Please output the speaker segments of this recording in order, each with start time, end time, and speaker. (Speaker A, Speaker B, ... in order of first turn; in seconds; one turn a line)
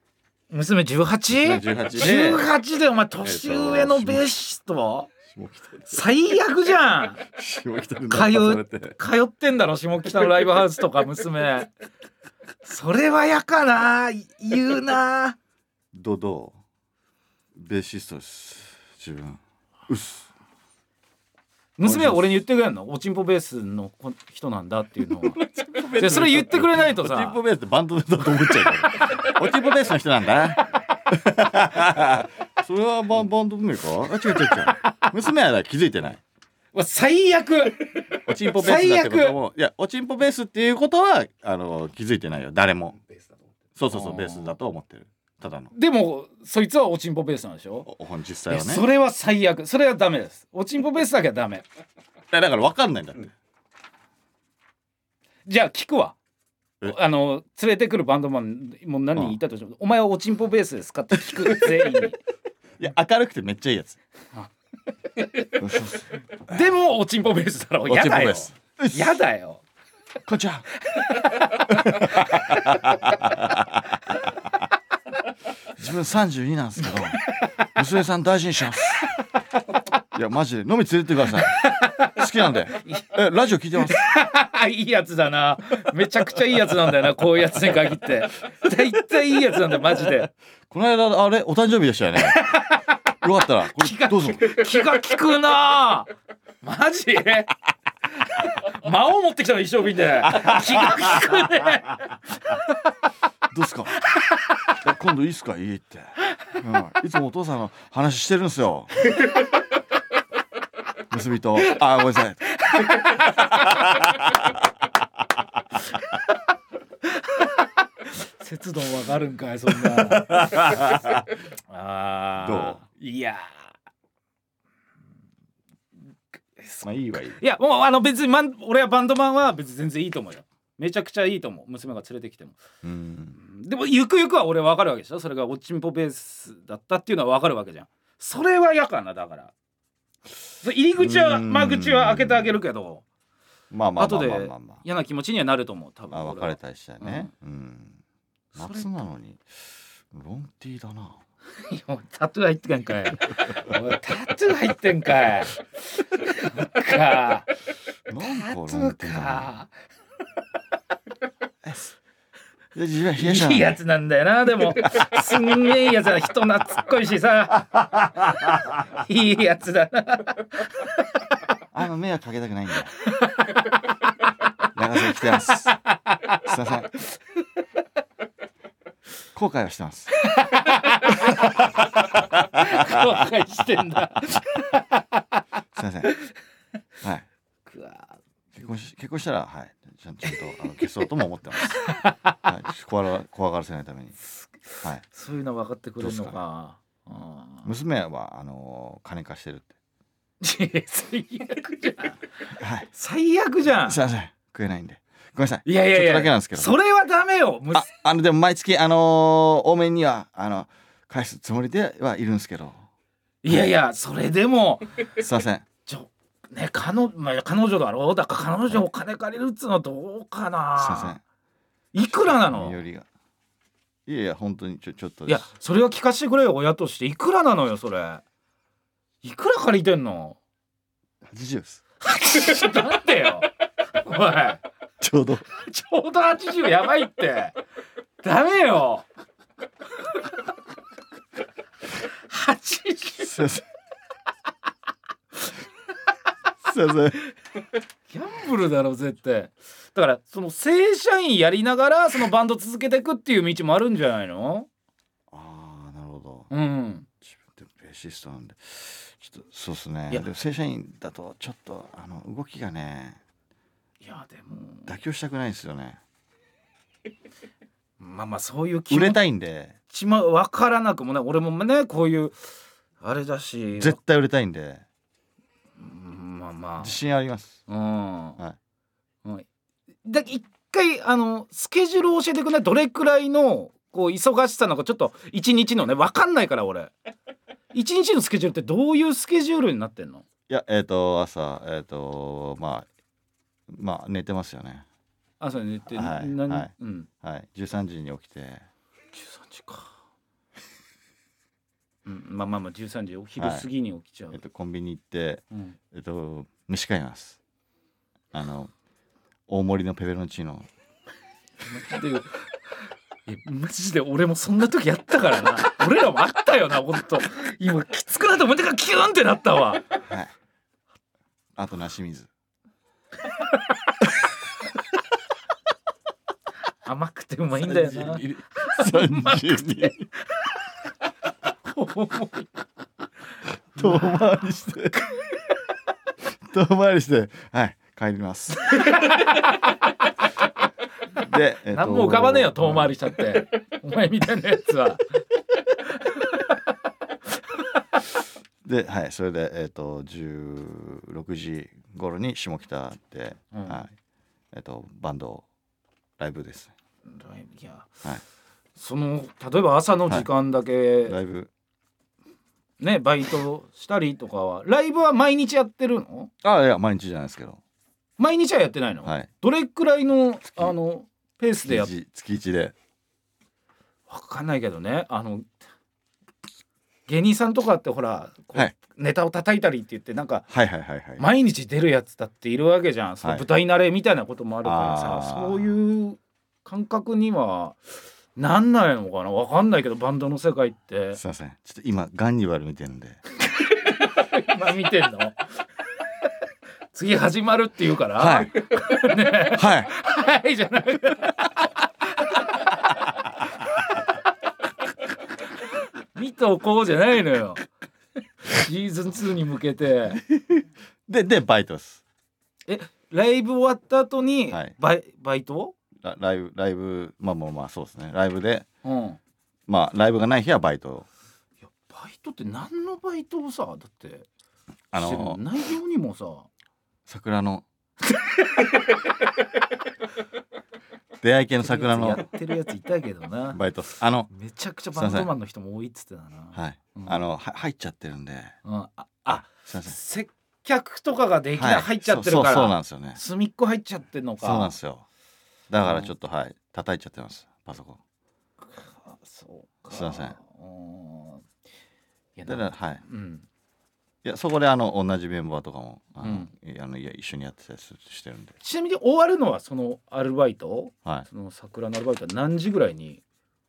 Speaker A: 0.5-5.1
Speaker B: 1.3-2.5
Speaker B: 3.2-4.3
Speaker B: 5.3-6.0
Speaker A: 5.9-7.2
Speaker B: 7.3-9.0
Speaker A: 8.1-11.7
Speaker A: 12.6-15.4
Speaker B: 15.9-16.6
Speaker B: 17.6-20.3
Speaker A: 21.8-25.4
Speaker B: 21.8-22.4
Speaker B: 25.4-36.2
Speaker A: 25.9-27.4
Speaker A: 29.0-29.4
Speaker A: 34.4-35.1
Speaker A: 36.7-39.4
Speaker B: 38.2-43.0
Speaker B: 43.8-45.7
Speaker A: 43.9-44.5
Speaker A: 45.7-47.9
Speaker B: 47.9-48.8
Speaker A: 48.5-51.7
Speaker B: 52.3-53.3
Speaker A: 55.5-56.2
Speaker A: 56.8-62.2
Speaker B: 62.8-64.0
Speaker A: 65.2-69.6
Speaker B: 65.6-66.1
Speaker B: 67.9-69.2
Speaker B: 70.3-70.7
Speaker A: 70.8-73.2
Speaker B: 71.7-74.0
Speaker B: 75.8-79.1
Speaker A: 77.2-77.7
Speaker B: 80.1-84.1
Speaker A: 81.3-82.2
Speaker A: 83.8-90.3
Speaker B: 90.7-92.4
Speaker A: 92.2-93.0
Speaker B: 93.2-94.6
Speaker A: 93.7-96.1
Speaker A: 96.6-97.5
Speaker A: 98.2-102.6
Speaker B: 100.3-101.4
Speaker B: 103.5-104.0
Speaker B: 104.7-109.0
Speaker B: 111.1-112.5
Speaker A: 112.6-113.5
Speaker B: 113.2-114.5
Speaker A: 117.1-121.0
Speaker B: 120.3-121.1
Speaker A: 121.7-123.7
Speaker B: 122.4-122.8
Speaker A: 126.6-132.6
Speaker B: 126.8-127.4
Speaker B: 132.8-133.4
Speaker A: 133.4-139.5
Speaker A: 140.6-143.1
Speaker B: 141.0-142.6
Speaker B: 143.7-144.8
Speaker A: 144.0-147.3
Speaker B: 146.1-148.0
Speaker B: 148.6-151.2
Speaker A: 148.6-148.9
Speaker A: 151.6-157.5
Speaker B: 158.1-159.5
Speaker A: 158.2-159.7
Speaker B: 161.6-161.9
Speaker B: 162.8-163.8
Speaker A: 163.2-170.7
Speaker B: 171.7-172.9
Speaker A: 173.2-173.6
Speaker B: 174.7-175.8
Speaker A: 175.2-176.4
Speaker B: 176.4-176.9
Speaker B: 179.3-180.1
Speaker A: 180.2-185.2
Speaker B: 182.6-183.0
Speaker B: 185.7-186.1
Speaker A: 187.7-188.2
Speaker B: 188.5-191.9
Speaker A: 191.6-192.3
Speaker B: 192.4-194.2
Speaker A: 195.1-197.7
Speaker B: 196.0-196.4
Speaker B: 197.7-199.7
Speaker A: 200.4-202.2
Speaker B: 202.6-202.9
Speaker A: 202.9-204.0
Speaker B: 203.8-206.8
Speaker A: 205.7-207.9
Speaker B: 207.7-212.8
Speaker A: 213.4-215.1
Speaker B: 213.5-213.7
Speaker B: 215.2-215.7
Speaker A: 215.9-221.2
Speaker B: 220.8-221.2
Speaker A: 221.9-222.8
Speaker B: 222.3-223.1
Speaker B: 224.1-225.4
Speaker A: 225.3-228.2
Speaker A: 229.2-230.4
Speaker B: 231.3-231.8
Speaker A: 232.0-234.6
Speaker B: 235.0-235.4
Speaker A: 235.5-237.6
Speaker A: 238.2-239.1
Speaker A: 242.0-243.5
Speaker B: 243.2-243.7
Speaker B: 246.6-247.2
Speaker A: 248.1-254.7
Speaker B: 255.3-256.5
Speaker A: 256.5-257.1
Speaker B: 257.3-263.2
Speaker A: 264.0-264.9
Speaker B: 264.9-266.0
Speaker A: 268.0-269.2
Speaker B: 268.9-269.8
Speaker A: 269.9-272.4
Speaker A: 273.0-274.0
Speaker B: 273.8-274.8
Speaker A: 275.8-277.0
Speaker B: 276.8-277.6
Speaker A: 277.7-278.4
Speaker A: 280.1-286.9
Speaker A: 287.7-290.2
Speaker B: 290.5-292.9
Speaker B: 293.7-294.9
Speaker A: 295.4-297.1
Speaker B: 295.9-298.7
Speaker A: 299.1-300.0
Speaker A: 302.1-304.4
Speaker B: 303.4-303.7
Speaker B: 304.3-307.4
Speaker B: 308.3-308.7
Speaker B: 309.5-310.7
Speaker A: 311.6-312.8
Speaker A: 313.3-319.9
Speaker B: 320.1-320.3
Speaker B: 321.6-322.3
Speaker A: 326.8-329.4
Speaker B: 327.6-330.1
Speaker A: 331.6-332.7
Speaker B: 333.8-335.0
Speaker A: 333.8-334.1
Speaker B: 336.4-338.8
Speaker A: 338.7-339.7
Speaker B: 341.2-342.9
Speaker A: 341.7-345.2
Speaker A: 345.9-346.6
Speaker B: 348.6-353.9
Speaker A: 353.5-353.8
Speaker B: 354.5-355.4
Speaker B: 356.2-356.7
Speaker A: 357.1-358.0
Speaker A: 358.8-361.2
Speaker B: 361.1-361.5
Speaker A: 362.8-366.3
Speaker B: 366.4-367.6
Speaker A: 368.2-371.9
Speaker B: 371.6-372.7
Speaker A: 374.1-375.5
Speaker A: 377.1-380.4
Speaker B: 380.5-381.2
Speaker A: 381.2-387.8
Speaker B: 384.6-385.7
Speaker A: 388.4-391.2
Speaker B: 391.2-393.2
Speaker A: 393.5-395.4
Speaker A: 396.9-401.5
Speaker B: 398.2-398.6
Speaker B: 399.5-399.9
Speaker A: 402.1-402.7
Speaker A: 406.1-407.6
Speaker A: 408.4-410.2
Speaker B: 410.3-412.0
Speaker A: 412.7-415.8
Speaker B: 416.0-418.7
Speaker A: 418.8-419.2
Speaker B: 419.7-421.1
Speaker A: 421.7-424.3
Speaker B: 424.9-425.4
Speaker A: 424.9-426.5
Speaker B: 427.1-427.6
Speaker B: 431.2-432.2
Speaker A: 431.6-433.6
Speaker B: 433.5-434.3
Speaker A: 434.3-437.2
Speaker B: 434.9-435.3
Speaker B: 436.5-438.6
Speaker A: 438.6-444.8
Speaker B: 439.3-440.0
Speaker B: 441.6-443.2
Speaker B: 444.4-445.1
Speaker B: 445.7-448.0
Speaker A: 445.9-446.1
Speaker A: 448.7-451.4
Speaker B: 449.9-450.4
Speaker A: 452.4-453.4
Speaker B: 452.5-453.0
Speaker B: 454.2-458.5
Speaker A: 456.2-456.5
Speaker A: 458.6-463.2